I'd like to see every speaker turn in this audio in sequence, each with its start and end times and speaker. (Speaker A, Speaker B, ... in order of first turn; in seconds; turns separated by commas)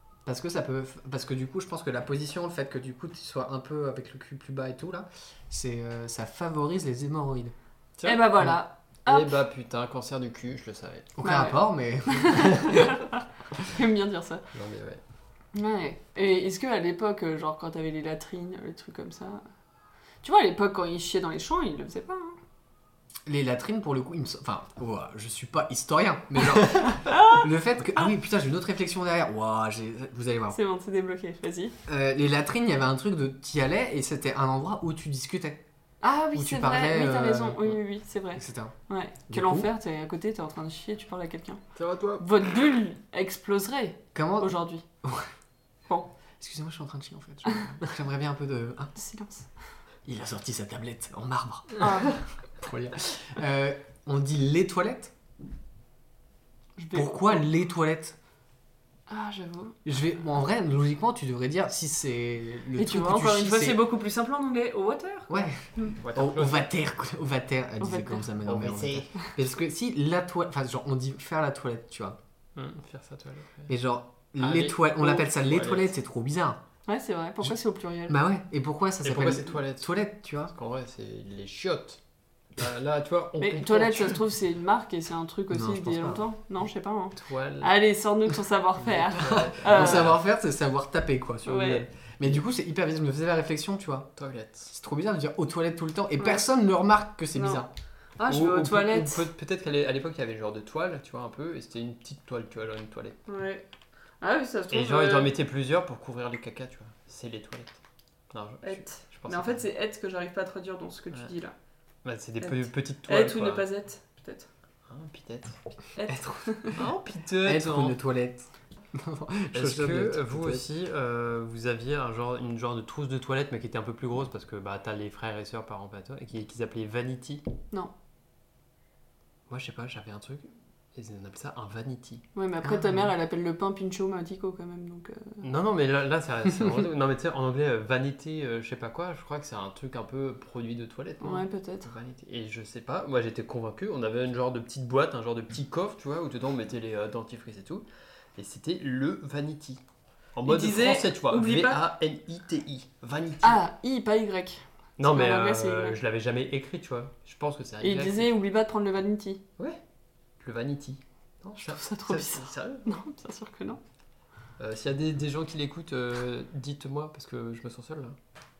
Speaker A: 0.2-7.5, Speaker B: 8.0-8.3, Speaker C: 8.0-9.3, Speaker B: 9.1-11.1, Speaker A: 11.2-12.7, Speaker C: 11.2-13.1, Speaker B: 12.4-12.9, Speaker C: 13.7-14.4, Speaker B: 14.5-15.0, Speaker C: 15.5-19.4, Speaker C: 20.2-22.4, Speaker A: 23.2-30.6, Speaker C: 27.1-27.4, Speaker C: 30.5-31.7, Speaker A: 31.9-35.6, Speaker C: 36.0-41.6, Speaker A: 36.3-37.8, Speaker A: 38.3-38.7, Speaker A: 39.3-39.7, Speaker B: 41.8-42.3, Speaker C: 42.2-44.8, Speaker A: 44.1-45.3, Speaker A: 46.4-48.9, Speaker C: 48.9-49.5, Speaker A: 50.0-55.1, Speaker C: 51.8-52.2, Speaker C: 56.8-57.4, Speaker A: 56.9-58.1, Speaker C: 59.1-59.8, Speaker A: 59.8-63.8, Speaker C: 62.8-65.9, Speaker A: 65.3-72.2, Speaker B: 66.0-66.7, Speaker C: 67.8-68.3, Speaker B: 68.5-69.1, Speaker B: 72.5-73.7, Speaker A: 73.7-76.6, Speaker B: 74.4-75.9, Speaker C: 76.9-78.2, Speaker A: 78.1-80.5, Speaker B: 79.0-82.0, Speaker B: 82.5-84.2, Speaker C: 83.4-90.1, Speaker A: 85.5-86.2, Speaker B: 87.1-87.7, Speaker B: 88.8-90.2, Speaker A: 89.4-94.1, Speaker C: 91.4-91.8, Speaker B: 94.2-94.7, Speaker A: 94.7-97.7, Speaker C: 97.3-97.6, Speaker C: 98.2-99.2, Speaker B: 98.3-103.2, Speaker C: 103.2-103.6, Speaker C: 104.2-105.3, Speaker B: 104.7-107.8, Speaker B: 108.3-109.6, Speaker C: 108.6-111.5, Speaker B: 112.0-113.7, Speaker C: 112.4-114.5, Speaker B: 114.9-115.6, Speaker C: 115.9-116.8, Speaker A: 116.1-116.7, Speaker B: 116.7-118.0, Speaker A: 117.4-120.6, Speaker B: 119.5-127.4, Speaker B: 129.5-132.2, Speaker C: 132.3-135.4, Speaker A: 132.6-133.0, Speaker B: 135.4-147.8, Speaker C: 141.2-141.9, Speaker B: 148.3-149.8, Speaker B: 150.3-153.6, Speaker C: 150.4-151.8, Speaker C: 153.4-156.0, Speaker B: 155.0-158.3, Speaker C: 157.8-159.4, Speaker B: 160.4-162.8, Speaker C: 161.6-163.8, Speaker B: 164.6-168.2